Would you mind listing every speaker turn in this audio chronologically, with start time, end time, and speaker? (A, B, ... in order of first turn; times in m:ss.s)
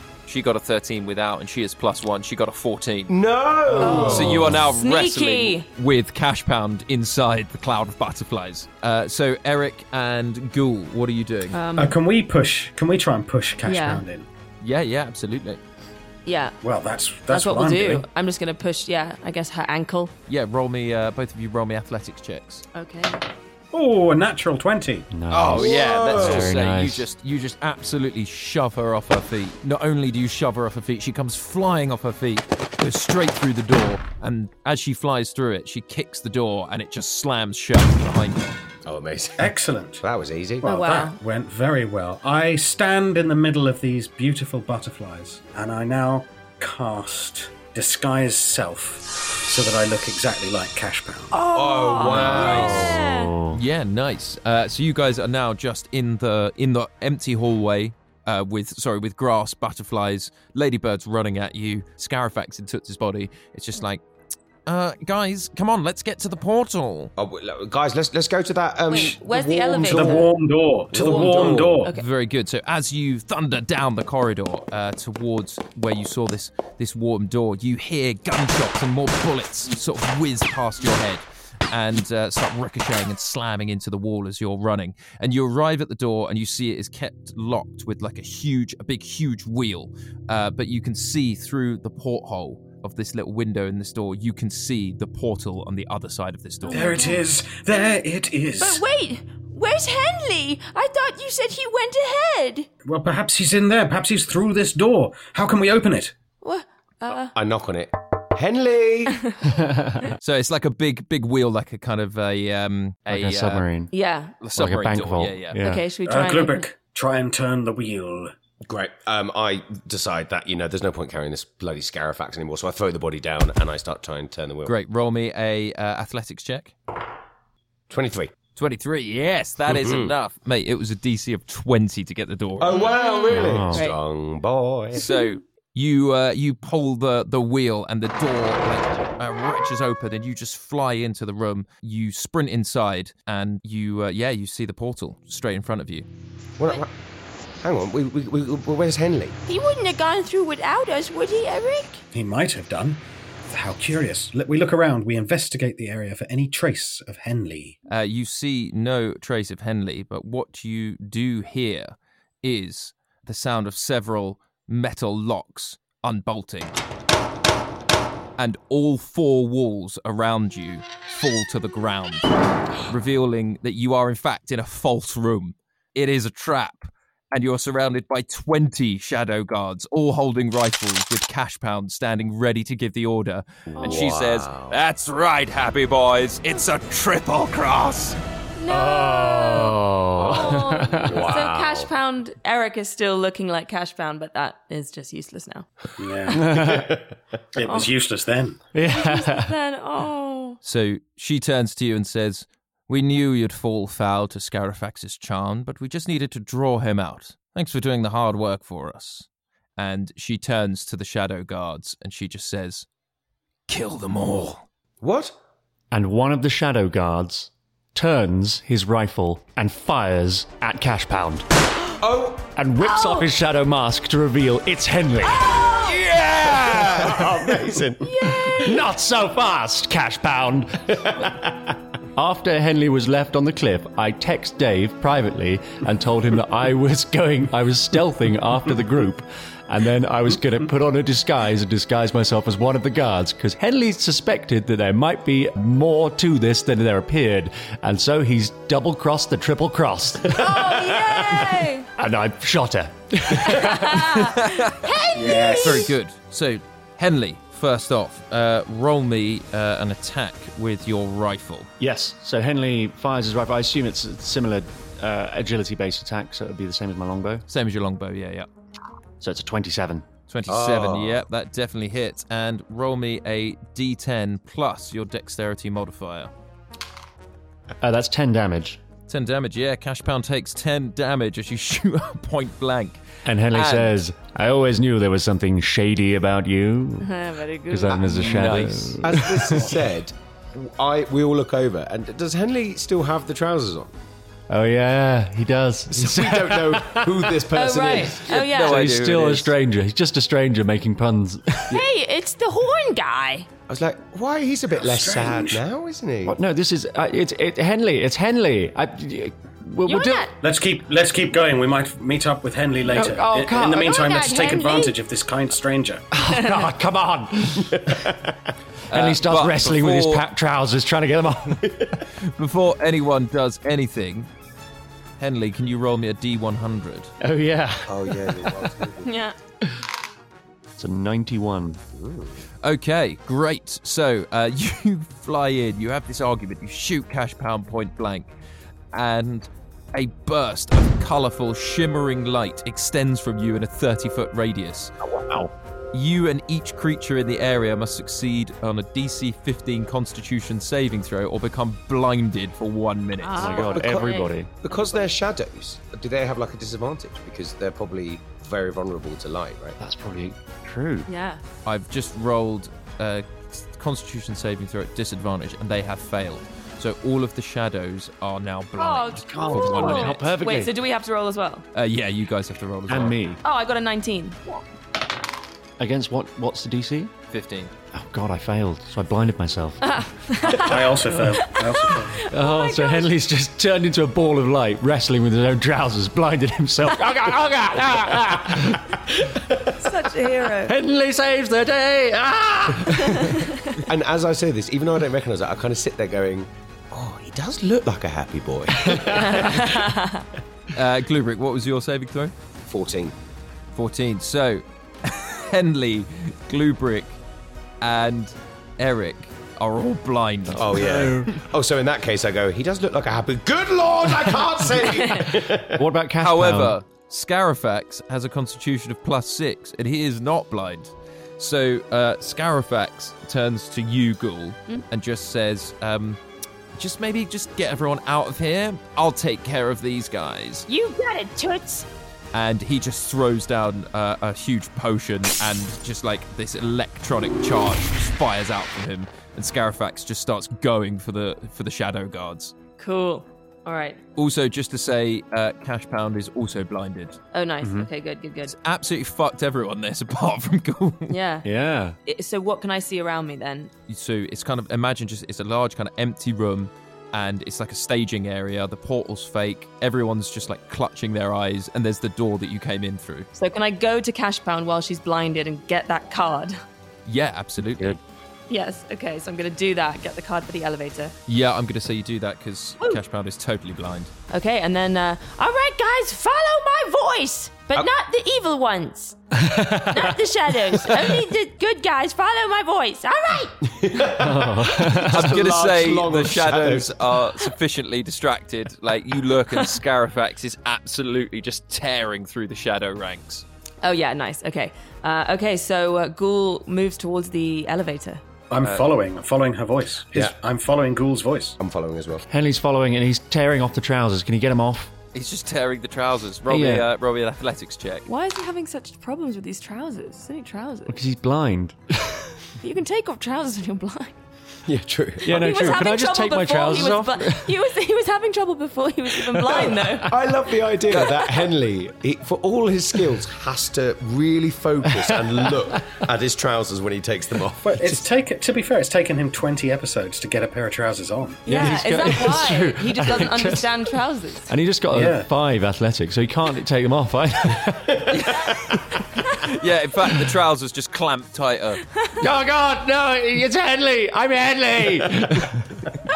0:00.3-0:03.1 A
0:03.1-0:04.6 B
0:03.7-0:04.5 C
0:03.8-0:05.7 D
0:04.0-0:11.6 A
0:11.5-0:12.0 D
0:11.8-0:14.2 C
0:13.6-0:14.0 D
0:14.6-0:15.6 A
0:16.3-0:16.6 D
0:16.6-0:18.1 C
0:17.3-0:20.1 D
0:20.3-0:22.6 A
0:22.7-0:23.2 D
0:23.7-0:25.1 C
0:25.1-0:27.1 E
0:25.3-0:38.6 A
0:25.6-0:26.5 B
0:38.9-0:40.6 B
0:39.4-0:40.0 C
0:40.6-0:41.2 D
0:40.6-0:51.4 C
0:51.3-0:52.0 F
0:51.5-0:53.0 B
0:51.7-0:53.2 D
0:52.1-0:53.6 E
0:52.2-0:52.7 A
0:53.5-1:04.0 A
1:04.7-1:07.1 A
1:07.2-1:10.3 B
1:08.9-1:10.3 D
1:09.8-1:11.9 C
1:10.9-1:11.9 B
1:11.0-1:12.1 D
1:11.2-1:37.0 A
1:36.7-1:38.8 C
1:36.7-1:37.2 D
1:38.6-1:42.7 F
1:42.8-1:46.2 C
1:47.0-1:47.4 D
1:47.3-1:49.2 B
1:49.4-1:50.1 E
1:50.2-1:53.7 A
1:53.1-1:53.9 E
1:53.9-1:54.4 D
1:54.4-1:55.6 A
1:54.6-1:55.9 E
1:55.6-1:56.7 D
1:56.0-1:58.3 C
1:58.6-2:04.7 B
2:04.6-2:06.8 A
2:07.9-2:08.3 B
2:08.6-2:13.0 A
2:09.7-2:10.1 B
2:12.6-2:15.0 B
2:13.3-2:14.0 D
2:13.3-2:13.9 E
2:14.9-2:26.1 A
2:26.6-2:26.9 B
2:27.6-2:29.4 B
2:29.5-2:32.0 F
2:32.1-2:37.8 C
2:37.9-2:46.8 A
2:48.4-3:08.2 A
3:03.8-3:04.8 B
3:08.7-3:11.3 E
3:08.7-3:15.7 D
3:11.0-3:11.9 B
3:16.0-3:16.8 C
3:16.3-3:16.9 E
3:16.6-3:16.9 B
3:17.6-3:18.7 C
3:17.7-3:17.9 D
3:18.7-3:19.5 E
3:18.8-3:20.6 D
3:20.6-3:32.9 A
3:33.7-3:34.6 A
3:35.0-3:35.4 B
3:35.9-3:41.5 E
3:42.0-3:42.5 B
3:42.6-3:45.6 E
3:42.9-3:43.2 F
3:45.8-3:48.1 B
3:46.5-3:47.6 E
3:48.2-3:51.3 E
3:51.0-3:51.3 B
3:52.2-4:14.3 E
4:10.4-4:11.9 F
4:13.6-4:14.3 D
4:14.3-4:21.7 A
4:14.8-4:15.8 F
4:15.1-4:15.9 C
4:21.8-4:27.4 E
4:27.5-4:28.5 A
4:29.2-4:30.0 E
4:30.3-4:36.3 A
4:30.5-4:31.2 B
4:37.8-4:38.8 E
4:39.1-4:44.0 A
4:43.2-4:47.1 E
4:47.0-4:48.2 D
4:47.7-4:49.8 E
4:48.0-4:49.0 A
4:49.0-4:53.9 B
4:54.5-4:57.5 E
4:55.9-4:58.3 B
4:57.5-4:58.8 D
4:58.3-4:59.5 A
4:58.6-5:01.8 E
5:01.7-5:03.5 F
5:03.7-5:06.4 B
5:04.8-5:05.6 C
5:06.2-5:10.3 E
5:09.9-5:10.3 F
5:10.4-5:16.1 C
5:12.8-5:14.1 E
5:13.7-5:15.0 F
5:16.1-5:18.1 E
5:18.9-5:20.2 A
5:18.9-5:21.8 E
5:22.3-5:24.3 A
5:25.2-5:27.1 A
5:27.2-5:28.9 E
5:27.9-5:29.1 B
5:29.0-5:29.4 D
5:30.8-5:31.8 E
5:32.0-5:32.4 B
5:32.6-5:38.3 A
5:38.9-5:44.9 A
5:45.9-5:53.6 A
5:53.2-5:54.4 D
5:53.4-5:54.5 E
5:53.7-5:59.8 B
5:59.8-6:01.1 E
6:01.1-6:01.4 D
6:01.6-6:10.3 A
6:08.8-6:11.6 D
6:09.3-6:10.8 E
6:11.7-6:13.2 A
6:12.9-6:13.4 E
6:13.4-6:14.4 D
6:15.8-6:17.1 E
6:17.3-6:17.7 A
6:17.9-6:20.0 E
6:19.8-6:23.1 D
6:20.5-6:22.2 C
6:21.1-6:21.4 E
6:22.2-6:29.4 E
6:29.8-6:30.7 D
6:30.5-6:33.6 E
6:33.9-6:39.8 B
6:38.8-6:39.7 E
6:39.2-6:40.2 D
6:40.7-6:42.3 A
6:42.7-6:43.1 B
6:43.7-6:47.2 A
6:47.8-6:50.8 A
6:50.5-6:51.4 E
6:50.6-6:55.8 B
6:54.8-6:56.8 E
6:56.2-7:06.2 A
7:06.8-7:10.7 A
7:10.7-7:11.9 F
7:12.3-7:22.6 A
7:22.8-7:24.0 D
7:24.2-7:27.2 A
7:27.3-7:28.5 D
7:27.6-7:27.9 E
7:28.5-7:31.2 A
7:31.1-7:31.5 D
7:31.4-7:32.0 E
7:32.1-7:33.7 D
7:33.9-7:43.3 A
7:43.4-7:46.6 D
7:47.1-7:48.0 A
7:48.5-7:51.2 D
7:51.3-7:54.1 A
7:54.3-7:55.4 D
7:55.4-7:59.2 F
7:59.3-8:01.2 E
7:59.9-8:03.6 F
8:03.7-8:07.2 B
8:04.1-8:05.4 E
8:05.0-8:13.4 A
8:13.8-8:18.2 D
8:18.5-8:21.6 C
8:18.6-8:18.9 A
8:21.6-8:22.2 B
8:22.3-8:24.9 E
8:25.1-8:28.1 A
8:26.5-8:26.9 E
8:28.1-8:31.0 D
8:30.9-8:32.4 E
8:32.6-8:34.2 D
8:32.9-8:33.2 F
8:34.7-8:35.7 B
8:35.2-8:37.5 E
8:35.2-8:40.1 D
8:39.2-8:40.1 E
8:39.5-8:48.0 B
8:44.9-8:45.8 E
8:47.6-8:51.4 C
8:51.5-8:54.5 D
8:51.5-8:58.5 E
8:54.9-8:55.3 C
8:58.1-9:01.8 A
9:02.2-9:05.9 E